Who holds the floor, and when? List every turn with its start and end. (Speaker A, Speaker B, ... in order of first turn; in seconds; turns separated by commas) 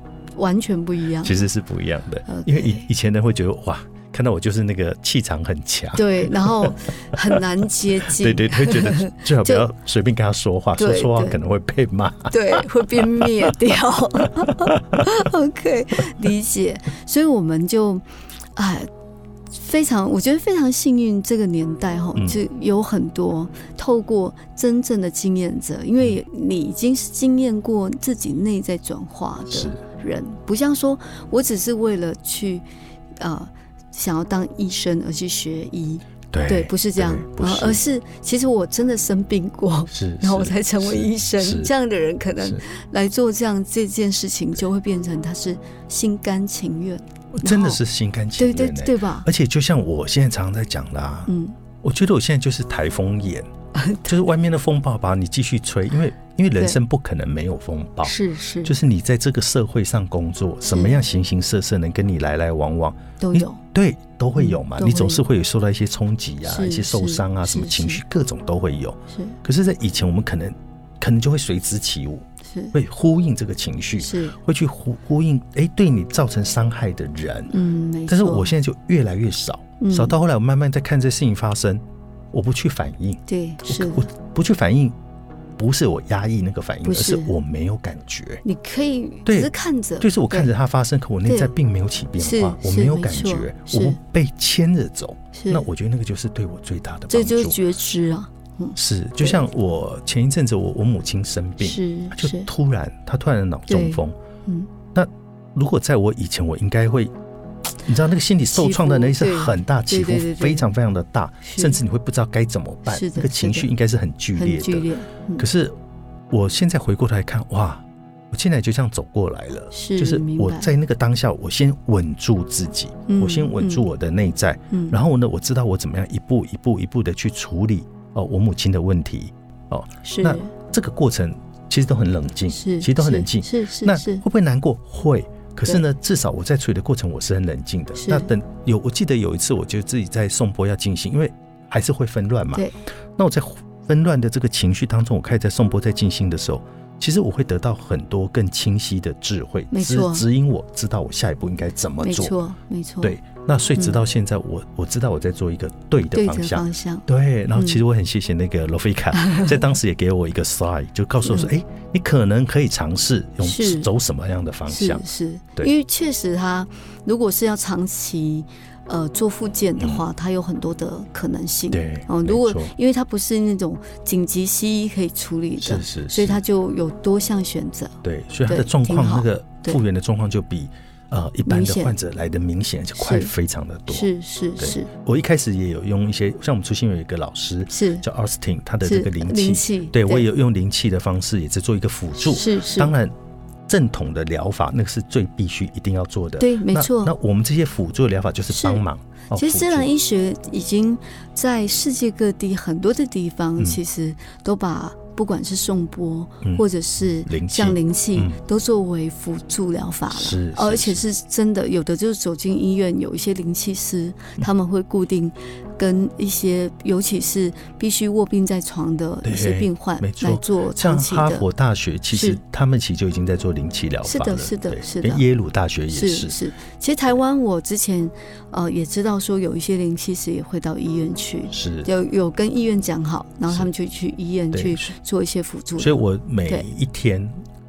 Speaker A: 0.3-1.4, Speaker B: 1.2-7.4, Speaker A: 2.3-2.9, Speaker A: 5.9-9.7, Speaker B: 8.0-13.5, Speaker A: 10.7-11.4, Speaker A: 12.3-18.0, Speaker B: 14.2-15.1, Speaker A: 18.6-18.9, Speaker A: 19.5-32.6, Speaker B: 22.1-22.4, Speaker B: 29.5-29.8, Speaker A: 33.2-47.8, Speaker B: 36.3-37.8, Speaker B: 39.9-41.7, Speaker B: 47.3-53.5, Speaker A: 48.4-49.3, Speaker A: 51.3-51.6, Speaker A: 53.7-54.2, Speaker B: 54.0-77.5, Speaker A: 58.0-58.7, Speaker A: 60.7-61.0, Speaker A: 63.2-63.6, Speaker A: 64.4-65.2, Speaker A: 66.4-68.0, Speaker A: 72.5-72.7, Speaker A: 74.0-74.4, Speaker A: 77.5-78.5, Speaker B: 78.1-84.9, Speaker A: 79.8-80.1, Speaker A: 83.3-84.1, Speaker B: 85.6-88.4, Speaker A: 86.8-87.3, Speaker A: 88.4-90.5, Speaker B: 89.2-97.6, Speaker A: 91.2-91.5, Speaker A: 92.2-94.0, Speaker A: 95.3-95.7, Speaker A: 97.1-99.5, Speaker B: 98.8-104.1, Speaker A: 101.6-102.5, Speaker A: 103.7-104.7, Speaker B: 104.9-107.1, Speaker B: 107.8-115.7, Speaker A: 108.5-110.7, Speaker A: 111.4-111.8, Speaker A: 112.8-113.7, Speaker A: 114.3-115.4, Speaker B: 116.3-152.4, Speaker A: 119.7-120.7, Speaker A: 123.1-123.9, Speaker A: 130.0-130.5, Speaker A: 132.5-134.2, Speaker A: 138.0-138.3, Speaker A: 149.7-150.2, Speaker A: 152.0-153.2, Speaker B: 153.0-165.0, Speaker A: 156.1-157.8, Speaker A: 159.2-159.4, Speaker A: 161.2-161.5, Speaker A: 163.4-163.9, Speaker A: 164.7-179.8, Speaker B: 169.8-170.0, Speaker B: 171.7-172.7, Speaker B: 175.6-176.4, Speaker B: 178.0-193.1, Speaker A: 181.4-181.9, Speaker A: 183.0-183.3, Speaker A: 183.9-184.9, Speaker A: 187.7-188.0, Speaker A: 188.8-190.2, Speaker A: 192.3-192.9, Speaker B: 193.7-199.9, Speaker A: 196.4-197.1, Speaker A: 198.5-198.8, Speaker A: 199.3-221.4, Speaker B: 207.2-208.4, Speaker B: 210.1-211.1, Speaker B: 219.2-226.4, Speaker A: 222.1-222.4, Speaker A: 224.0-225.2, Speaker A: 225.9-236.7, Speaker B: 231.5-231.9, Speaker B: 234.5-234.9, Speaker B: 235.8-237.4